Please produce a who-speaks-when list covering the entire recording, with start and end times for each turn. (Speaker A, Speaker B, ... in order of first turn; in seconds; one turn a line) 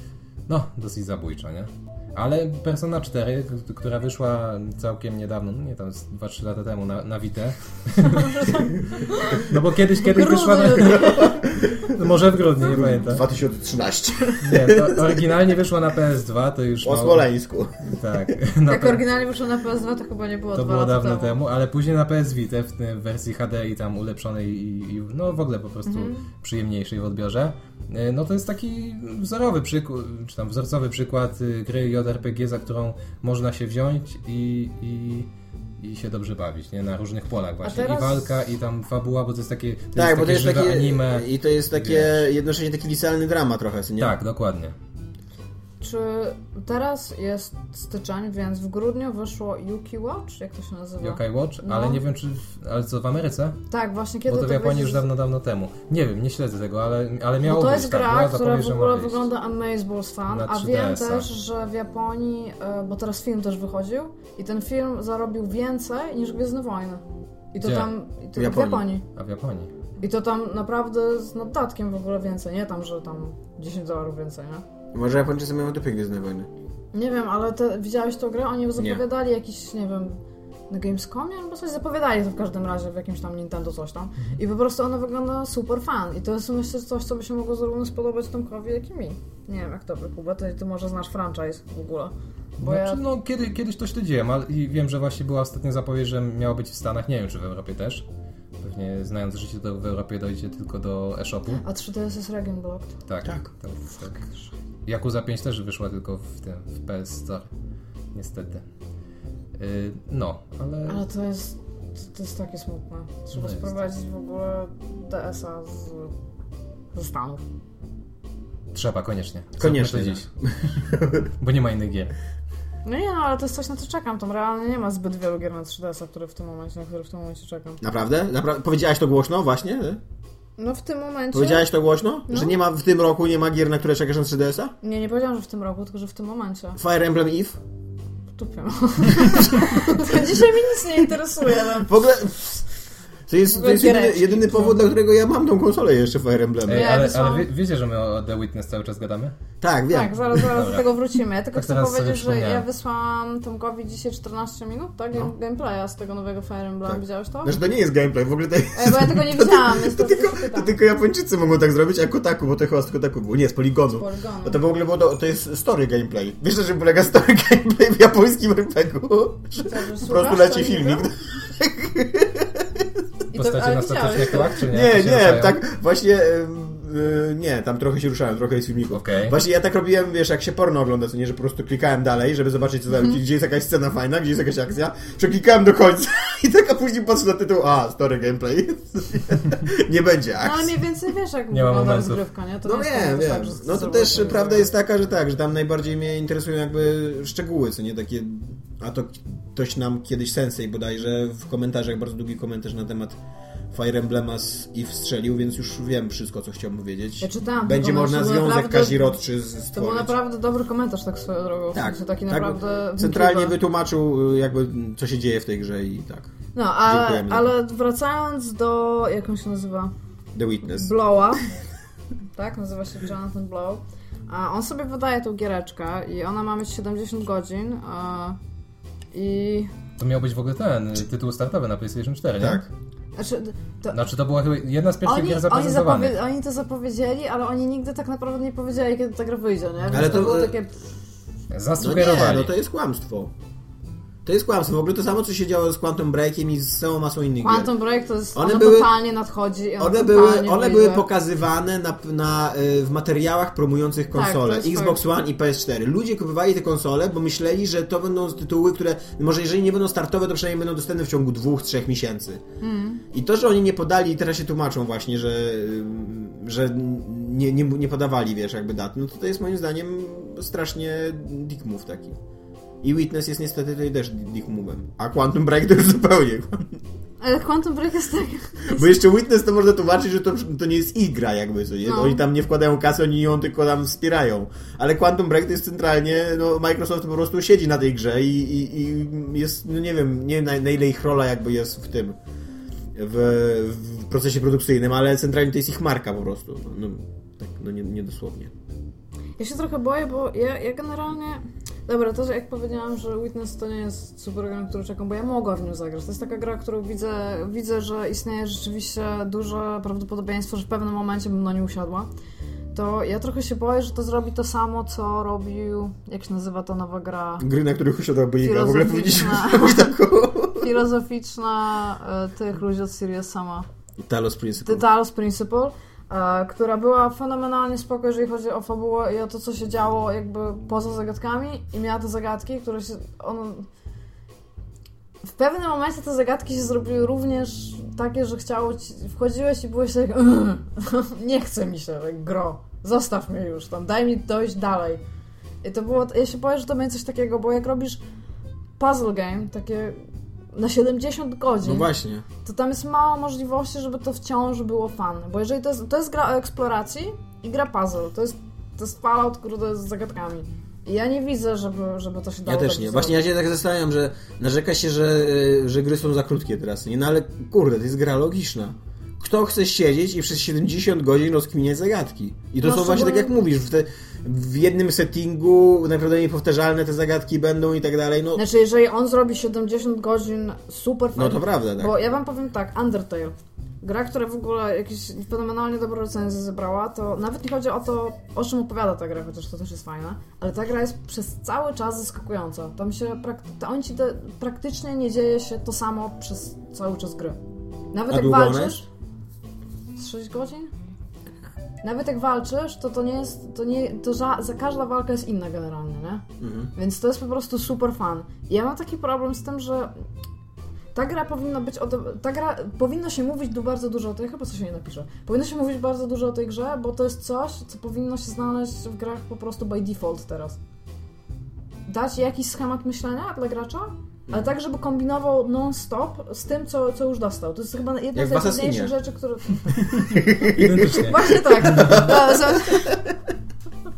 Speaker A: 0.5-8.7
Speaker B: 8.0-11.4
Speaker A: 9.3-13.2
Speaker C: 11.1-11.9
Speaker C: 12.6-15.3
Speaker A: 14.4-17.3
Speaker C: 16.8-17.9
Speaker A: 17.8-19.0
Speaker B: 18.7-21.4
Speaker A: 20.5-35.3
Speaker B: 25.8-26.2
Speaker A: 35.8-42.2
Speaker B: 37.6-38.3
Speaker C: 39.9-44.1
Speaker A: 44.0-44.7
Speaker B: 45.8-52.0
Speaker A: 51.0-53.6
Speaker B: 53.7-55.0
Speaker A: 54.3-59.3
Speaker B: 57.4-67.0
Speaker A: 60.3-61.3
Speaker B: 67.5-69.0
Speaker A: 67.6-67.9
Speaker C: 68.3-68.9
Speaker A: 69.1-69.7
Speaker B: 70.0-74.6
Speaker C: 74.9-76.5
Speaker B: 76.9-80.2
Speaker C: 78.8-79.0
Speaker B: 80.7-93.0
Speaker A: 92.6-98.0
Speaker A: 98.6-101.6
Speaker B: 101.6-102.9
Speaker A: 103.1-104.2
Speaker A: 104.8-107.5
Speaker A: 108.1-108.6
Speaker A: 109.5-111.0
Speaker B: 110.8-116.1
Speaker A: 113.3-113.7
Speaker B: 116.9-117.4
Speaker A: 118.7-120.3
Speaker C: 119.6-121.3
Speaker A: 121.4-122.2
Speaker B: 122.8-127.8
Speaker C: 127.8-130.0
Speaker B: 130.6-131.7
Speaker C: 131.3-134.7
Speaker B: 132.3-132.6
Speaker B: 134.8-136.8
Speaker C: 136.8-137.6
Speaker B: 138.3-141.9
Speaker C: 139.2-140.4
Speaker C: 141.7-142.7
Speaker C: 143.3-146.9
Speaker B: 143.5-144.8
Speaker A: 146.7-149.3
Speaker B: 146.7-147.5
Speaker C: 149.6-150.3
Speaker B: 149.9-157.6
Speaker A: 150.3-150.9
Speaker A: 151.5-152.6
Speaker C: 156.8-172.9
Speaker B: 158.7-160.8
Speaker B: 163.9-164.6
Speaker B: 169.6-171.1
Speaker B: 173.3-174.6
Speaker A: 173.3-175.6
Speaker C: 174.6-190.7
Speaker A: 178.9-179.3
Speaker B: 190.4-194.7
Speaker A: 191.5-192.2
Speaker C: 192.6-203.2
Speaker C: 203.7-210.2
Speaker B: 207.2-209.2
Speaker B: 209.7-213.6
Speaker C: 211.7-216.3
Speaker B: 216.5-219.9
Speaker C: 216.8-217.5
Speaker C: 220.3-220.9
Speaker B: 220.7-221.4
Speaker B: 222.3-228.4
Speaker B: 229.1-229.7
Speaker A: 230.0-232.6
Speaker C: 232.4-232.7
Speaker B: 233.2-234.0
Speaker A: 233.9-236.2
Speaker B: 235.0-240.8
Speaker C: 239.9-240.5
Speaker A: 241.5-242.5
Speaker C: 241.8-243.3
Speaker C: 244.2-247.7
Speaker B: 247.4-251.1
Speaker C: 248.3-248.9
Speaker C: 249.8-262.4
Speaker B: 254.1-255.0
Speaker B: 262.6-263.0
Speaker C: 263.1-272.2
Speaker C: 272.8-276.8
Speaker B: 277.2-279.0
Speaker C: 278.7-292.2
Speaker B: 281.8-282.2
Speaker C: 292.9-298.5
Speaker B: 299.4-312.1
Speaker B: 312.7-317.5
Speaker C: 317.4-320.7
Speaker B: 318.4-319.9
Speaker B: 320.6-323.7
Speaker C: 324.0-324.8
Speaker B: 324.6-333.7
Speaker B: 335.2-345.0
Speaker B: 345.6-348.0
Speaker B: 348.8-350.0
Speaker B: 350.5-351.9
Speaker C: 351.6-352.2
Speaker B: 352.4-363.2
Speaker C: 362.4-378.4
Speaker B: 372.6-373.3
Speaker B: 378.4-397.4
Speaker C: 381.1-381.9
Speaker B: 397.9-398.9
Speaker C: 398.1-398.8
Speaker B: 399.9-400.7
Speaker B: 401.8-409.9
Speaker C: 406.4-406.7
Speaker B: 410.9-420.6
Speaker B: 421.9-430.3
Speaker C: 428.1-428.9
Speaker C: 429.9-433.1
Speaker A: 430.4-432.1
Speaker B: 430.9-433.0